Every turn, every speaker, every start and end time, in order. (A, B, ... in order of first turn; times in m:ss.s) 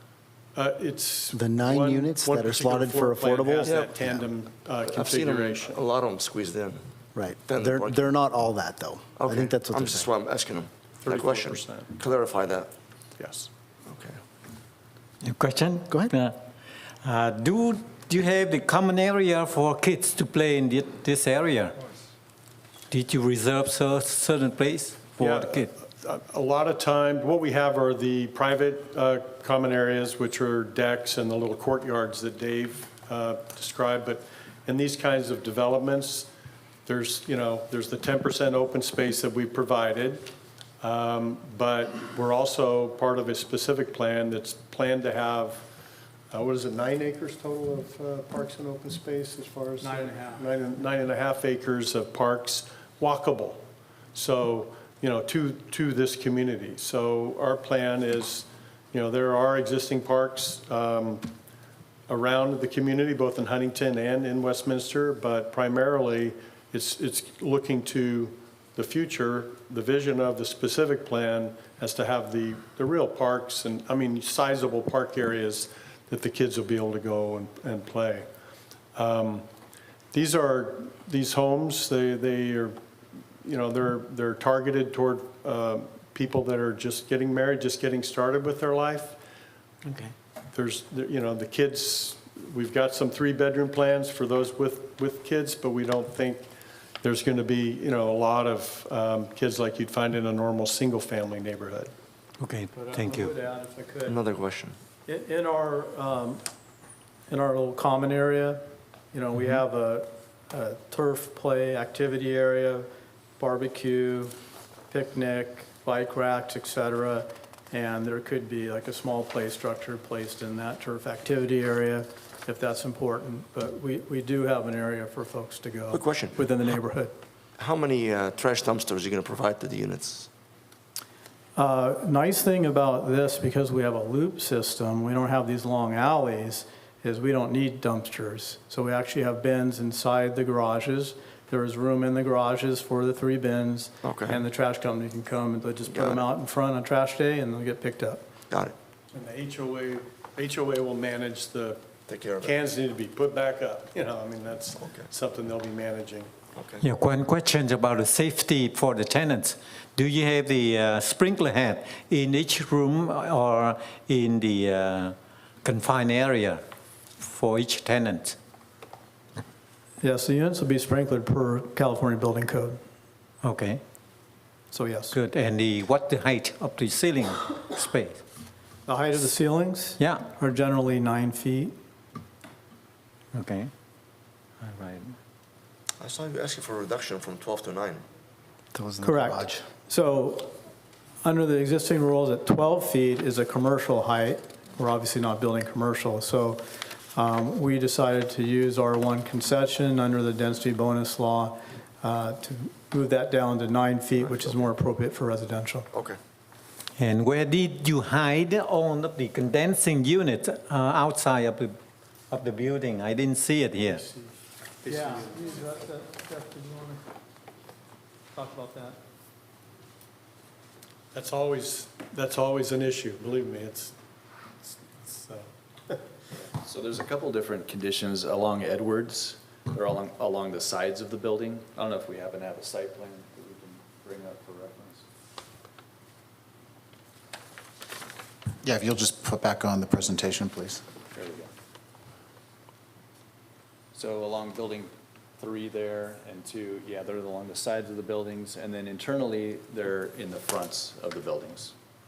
0:00.5-0:05.8 A
0:01.3-0:04.2 B
0:03.6-0:03.9 C
0:04.8-0:06.8 C
0:07.1-0:10.0 B
0:07.5-0:08.0 C
0:09.2-0:12.7 C
0:11.0-0:11.9 A
0:13.2-0:13.5 A
0:13.9-0:14.2 C
0:15.2-0:16.4 D
0:17.0-0:21.8 D
0:22.9-0:25.7 D
0:25.2-0:36.3 A
0:36.8-0:45.7 A
0:46.3-1:01.3 A
0:49.8-0:50.4 E
1:02.1-1:18.3 A
1:18.9-1:19.5 A
1:20.1-1:22.8 A
1:23.4-1:29.2 A
1:29.8-1:30.1 D
1:30.5-1:41.9 A
1:42.4-1:43.3 D
1:42.7-1:44.2 E
1:44.0-1:44.7 C
1:45.1-1:46.4 E
1:47.3-1:48.6 E
1:49.1-1:52.8 E
1:53.4-1:54.3 E
1:54.9-2:07.1 E
2:05.9-2:06.4 C
2:07.6-2:10.3 C
2:11.6-2:28.2 E
2:24.0-2:24.4 C
2:25.8-2:26.2 C
2:28.5-2:28.7 C
2:29.1-2:31.8 A
2:32.1-2:32.5 C
2:32.4-2:36.3 A
2:34.8-2:35.1 C
2:36.6-2:36.8 C
2:36.8-2:46.6 D
2:47.2-2:48.3 D
2:50.0-2:52.8 E
2:53.4-2:53.8 D
2:54.7-2:55.2 E
2:55.1-2:58.2 D
2:58.8-3:01.7 E
3:00.0-3:00.2 D
3:03.3-3:03.7 D
3:04.6-3:05.1 D
3:06.0-3:08.0 C
3:08.7-3:09.6 B
3:09.0-3:10.5 E
3:11.2-3:16.6 E
3:17.1-3:25.9 E
3:25.9-3:26.2 C
3:27.0-3:31.7 D
3:32.3-3:34.0 D
3:34.0-3:34.3 A
3:34.8-3:35.7 A
3:34.8-3:37.0 E
3:38.3-3:39.0 E
3:41.1-3:44.0 A
3:44.6-3:46.0 A
3:46.6-3:55.0 F
3:58.6-4:00.8 G
4:01.1-4:01.5 F
4:03.9-4:11.7 F